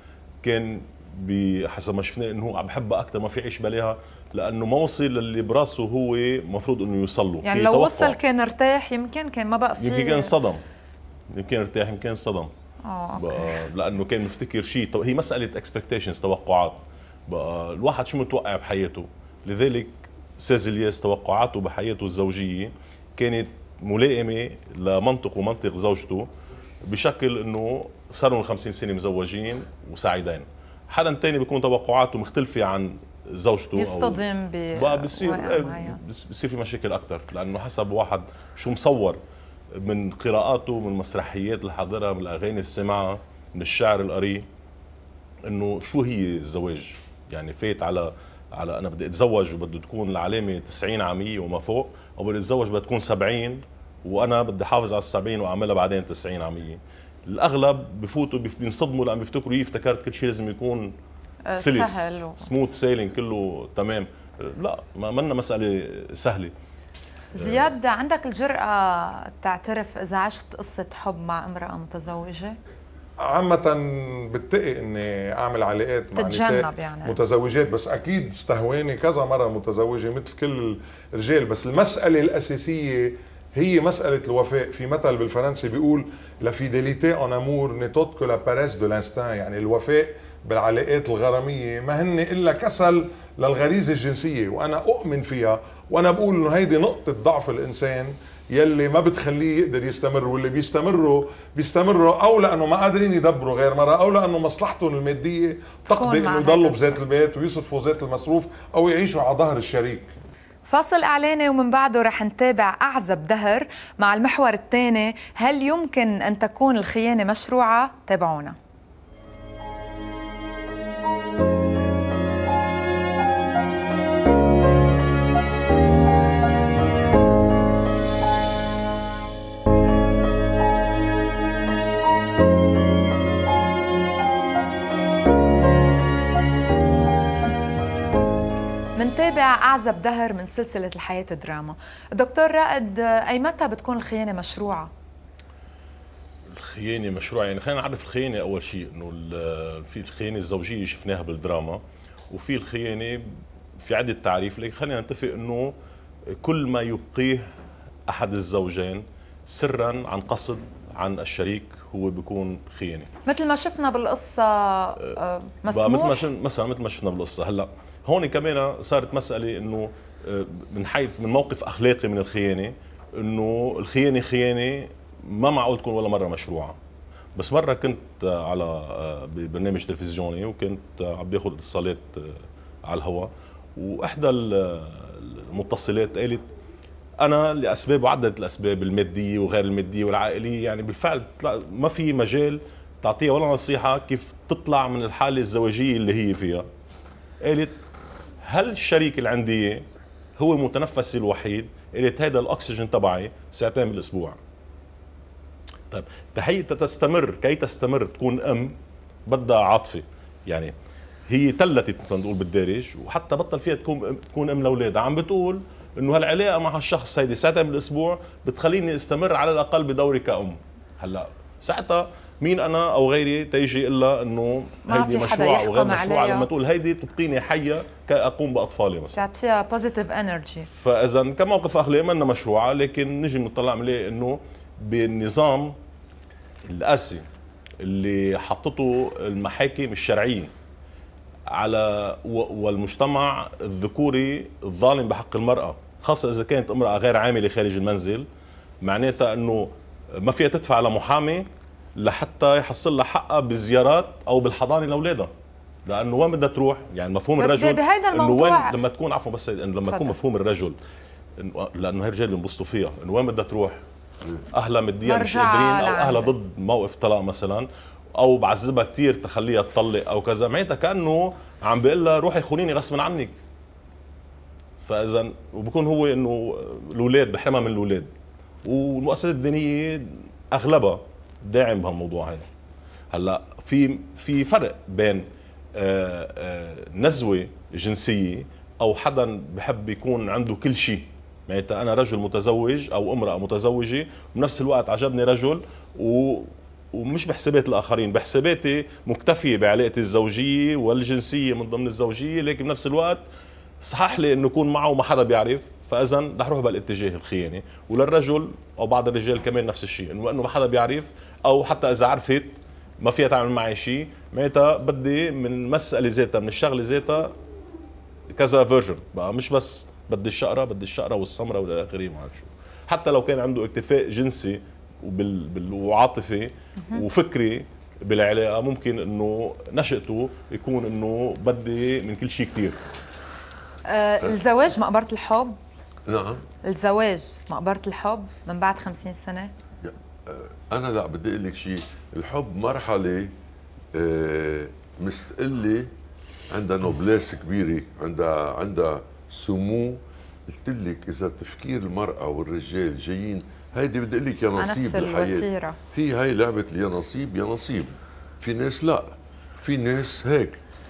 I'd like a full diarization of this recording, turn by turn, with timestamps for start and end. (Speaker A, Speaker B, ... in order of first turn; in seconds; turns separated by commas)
Speaker A: 0.4-8.2, Speaker B: 7.4-10.3, Speaker A: 9.8-10.6, Speaker A: 11.3-12.5, Speaker B: 12.8-13.6, Speaker A: 13.2-26.3, Speaker A: 26.9-34.2, Speaker B: 33.8-36.0, Speaker A: 34.7-39.2, Speaker A: 39.8-44.4, Speaker A: 45.5-60.9, Speaker B: 61.5-62.4, Speaker A: 61.5-66.5, Speaker B: 67.3-72.5, Speaker A: 67.4-67.7, Speaker C: 73.3-110.1, Speaker B: 76.2-77.1, Speaker B: 105.9-107.0, Speaker B: 110.7-118.5, Speaker B: 139.0-144.9, Speaker A: 146.5-151.8, Speaker A: 152.3-153.3, Speaker A: 153.8-155.7, Speaker A: 156.4-157.4, Speaker A: 158.1-163.1, Speaker B: 163.2-166.3, Speaker A: 165.7-176.8, Speaker A: 177.3-186.5, Speaker A: 187.2-196.7, Speaker A: 197.4-197.7, Speaker A: 198.4-199.8, Speaker A: 200.4-204.4, Speaker A: 205.9-208.7, Speaker A: 209.3-210.7, Speaker A: 211.3-229.2, Speaker B: 224.9-226.5, Speaker B: 229.1-230.7, Speaker A: 230.7-235.7, Speaker A: 236.7-237.2, Speaker A: 237.8-240.5, Speaker A: 241.5-248.2, Speaker A: 248.8-251.5, Speaker A: 252.0-255.3, Speaker A: 255.8-260.8, Speaker B: 257.4-258.7, Speaker B: 259.8-260.1, Speaker A: 261.4-263.8, Speaker A: 264.6-273.3, Speaker B: 265.0-266.3, Speaker A: 274.8-278.1, Speaker A: 278.6-282.5, Speaker A: 283.1-285.2, Speaker A: 285.8-303.2, Speaker A: 303.8-317.3, Speaker A: 318.3-332.8, Speaker B: 326.8-327.0, Speaker B: 333.9-335.6, Speaker D: 336.1-336.4, Speaker B: 336.7-339.5, Speaker D: 339.8-343.3, Speaker D: 343.9-345.9, Speaker D: 346.5-360.6, Speaker B: 354.6-355.8